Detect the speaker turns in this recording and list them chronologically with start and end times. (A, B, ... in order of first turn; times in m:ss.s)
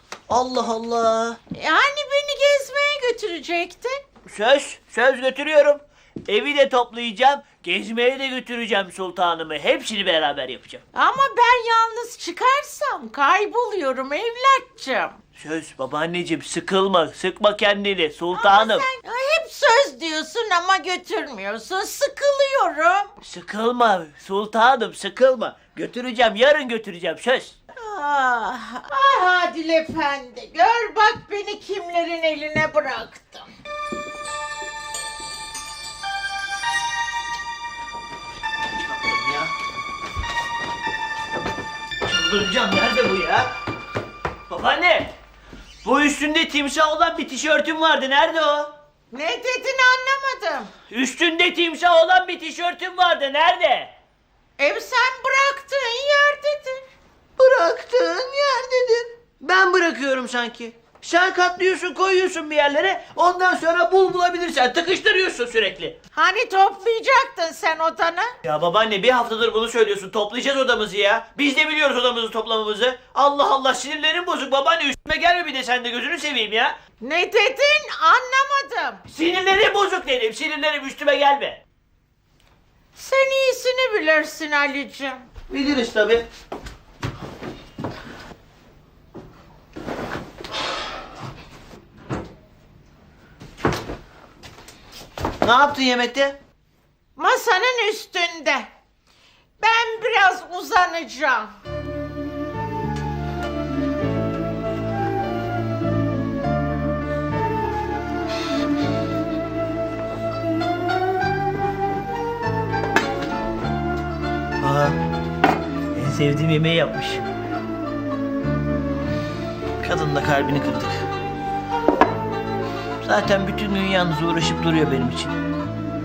0:00.3-0:01.4 A
0:01.5-0:04.0 B
0:04.3-0:10.8 A
0:10.9-0:15.1 B
0:15.4-0:18.8 A
0:18.3-0:23.1 B
0:23.2-0:27.6 A
0:27.8-0:33.5 B
0:38.7-0:39.5 A
0:42.0-0:43.5 A
0:44.5-0:45.1 A
0:45.8-0:48.7 A
0:49.1-0:50.7 B
0:50.9-0:53.9 A
0:54.6-0:56.8 B
0:57.4-1:06.0 A
1:06.1-1:08.3 B
1:08.4-1:16.7 A
1:17.0-1:19.0 B
1:19.1-1:21.6 A
1:23.0-1:25.2 B
1:25.5-1:26.2 A
1:35.4-1:36.4 A
1:37.2-1:38.7 B
1:39.6-1:41.5 B
1:54.6-1:55.0 A
1:55.9-1:57.2 A
1:59.8-2:01.0 A
2:03.0-2:05.3 A